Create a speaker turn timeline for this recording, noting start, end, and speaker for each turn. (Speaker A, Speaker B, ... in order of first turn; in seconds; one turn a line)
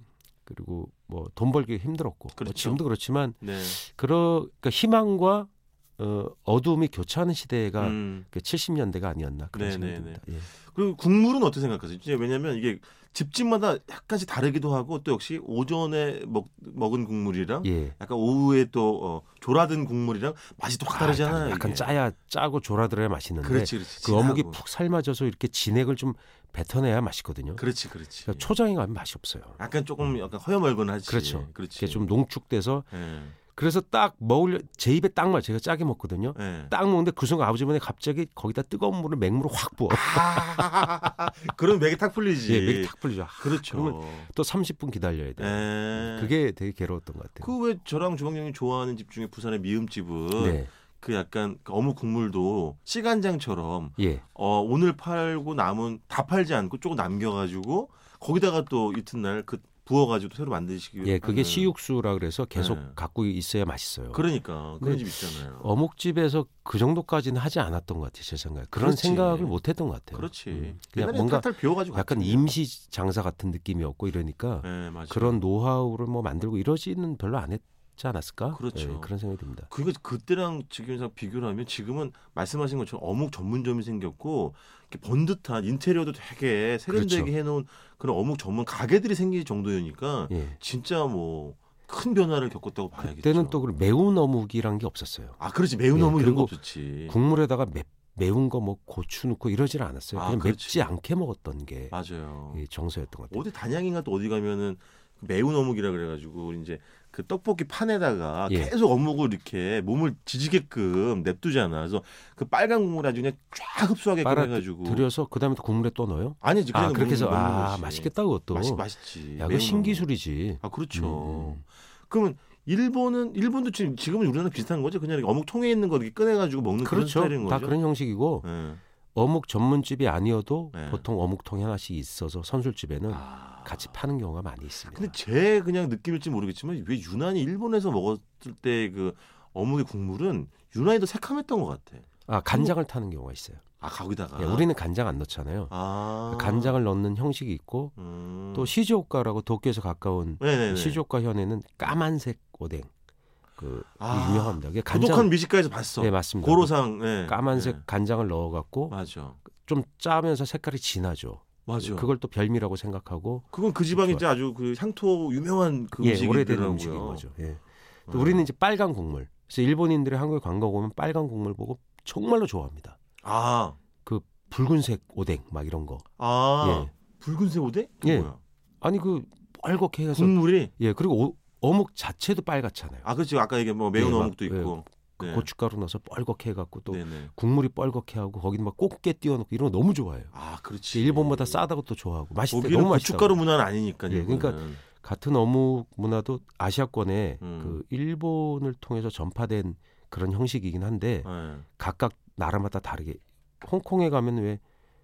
Speaker A: 0.5-10.5
Speaker B: 2.4-2.8
Speaker B: 3.4-3.8
Speaker B: 7.8-8.2
Speaker B: 9.5-21.9
Speaker A: 17.6-18.0
Speaker A: 20.9-27.6
Speaker B: 23.4-24.6
Speaker B: 27.6-28.5
Speaker A: 28.2-30.1
Speaker B: 29.6-32.1
Speaker A: 31.1-32.9
Speaker B: 32.9-33.4
Speaker A: 33.5-40.8
Speaker B: 36.4-36.7
Speaker B: 39.9-44.3
Speaker A: 42.5-47.5
Speaker B: 45.4-46.4
Speaker B: 47.4-61.7
Speaker A: 50.4-50.7
Speaker A: 54.0-54.2
Speaker A: 61.0-64.2
Speaker B: 62.5-63.0
Speaker B: 64.1-65.7
Speaker A: 64.8-79.7
Speaker B: 68.7-69.6
Speaker B: 70.1-72.6
Speaker B: 74.6-75.4
Speaker B: 78.5-79.1
Speaker B: 79.7-93.6
Speaker A: 86.9-87.3
Speaker A: 90.3-90.6
Speaker A: 93.0-95.4
Speaker B: 95.4-97.2
Speaker A: 95.9-96.5
Speaker A: 97.1-102.0
Speaker B: 100.1-100.9
Speaker B: 101.9-102.6
Speaker A: 102.5-103.4
Speaker B: 103.3-115.1
Speaker A: 114.2-121.6
Speaker B: 116.4-120.1
Speaker B: 120.6-127.8
Speaker A: 126.8-128.5
Speaker B: 128.4-128.8
Speaker A: 129.1-135.1
Speaker B: 130.7-131.1
Speaker B: 133.1-133.9
Speaker B: 134.9-142.8
Speaker A: 142.3-143.6
Speaker B: 143.8-144.7
Speaker A: 144.4-145.7
Speaker B: 145.7-146.8
Speaker A: 146.3-147.9
Speaker B: 148.0-148.7
Speaker A: 148.5-152.9
Speaker B: 150.4-151.0
Speaker A: 153.6-155.3
Speaker B: 154.0-157.8
Speaker A: 156.0-159.0
Speaker B: 158.9-159.4
Speaker A: 159.6-164.2
Speaker B: 161.7-162.1
Speaker B: 163.5-167.3
Speaker A: 166.0-173.0
Speaker B: 168.1-168.5
Speaker B: 173.2-173.8
Speaker A: 174.0-176.1
Speaker B: 176.2-178.4
Speaker A: 176.6-176.9
Speaker A: 178.0-183.1
Speaker B: 180.1-180.7
Speaker B: 183.0-185.5
Speaker A: 183.9-190.3
Speaker B: 186.9-187.3
Speaker B: 190.3-191.7
Speaker A: 190.9-193.4
Speaker B: 192.5-194.8
Speaker A: 194.1-204.6
Speaker B: 197.4-197.8
Speaker B: 201.2-201.7